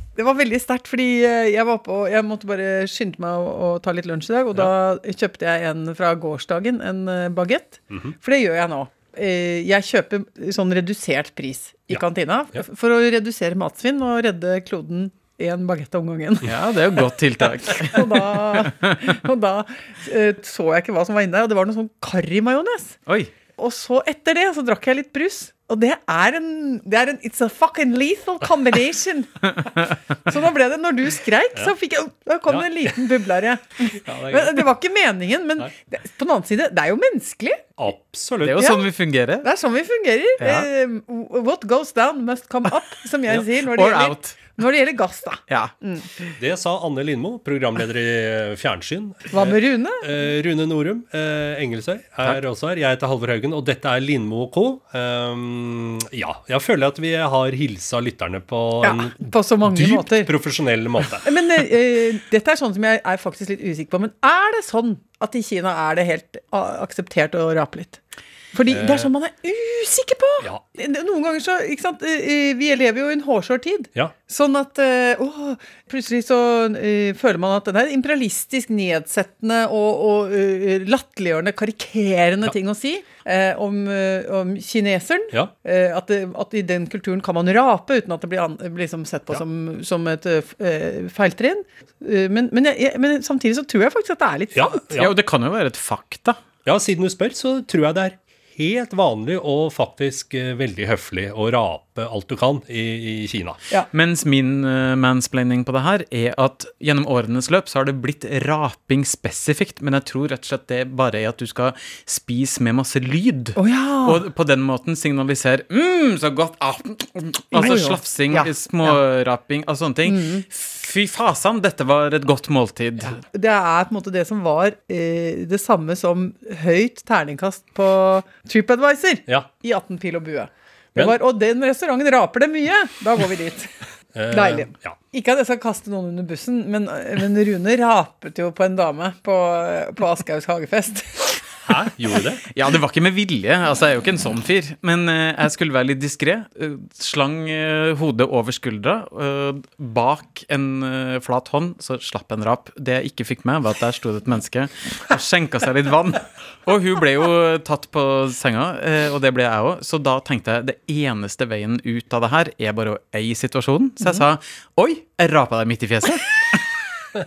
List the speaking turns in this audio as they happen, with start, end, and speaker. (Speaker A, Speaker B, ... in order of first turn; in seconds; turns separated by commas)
Speaker A: 0.2-16.5, Speaker B: 16.4-19.1, Speaker A: 17.8-23.0, Speaker A: 23.6-29.7, Speaker A: 30.2-37.6, Speaker C: 32.5-32.9, Speaker C: 34.0-34.6, Speaker C: 37.8-38.8, Speaker B: 38.4-39.5, Speaker A: 38.6-38.8, Speaker A: 39.4-46.1, Speaker B: 40.4-40.7, Speaker B: 43.6-44.4, Speaker B: 45.5-46.3, Speaker C: 46.4-61.3, Speaker A: 49.3-50.1, Speaker A: 58.8-60.3, Speaker A: 61.2-68.0, Speaker A: 68.5-94.9, Speaker C: 68.7-69.1, Speaker C: 94.5-95.1, Speaker B: 95.0-96.4, Speaker C: 96.7-103.6, Speaker B: 103.9-123.2, Speaker A: 113.5-114.2, Speaker A: 117.5-119.0, Speaker A: 120.0-120.4, Speaker A: 123.0-133.7, Speaker C: 134.1-135.0, Speaker A: 134.3-141.4, Speaker C: 141.6-142.4, Speaker B: 142.5-166.7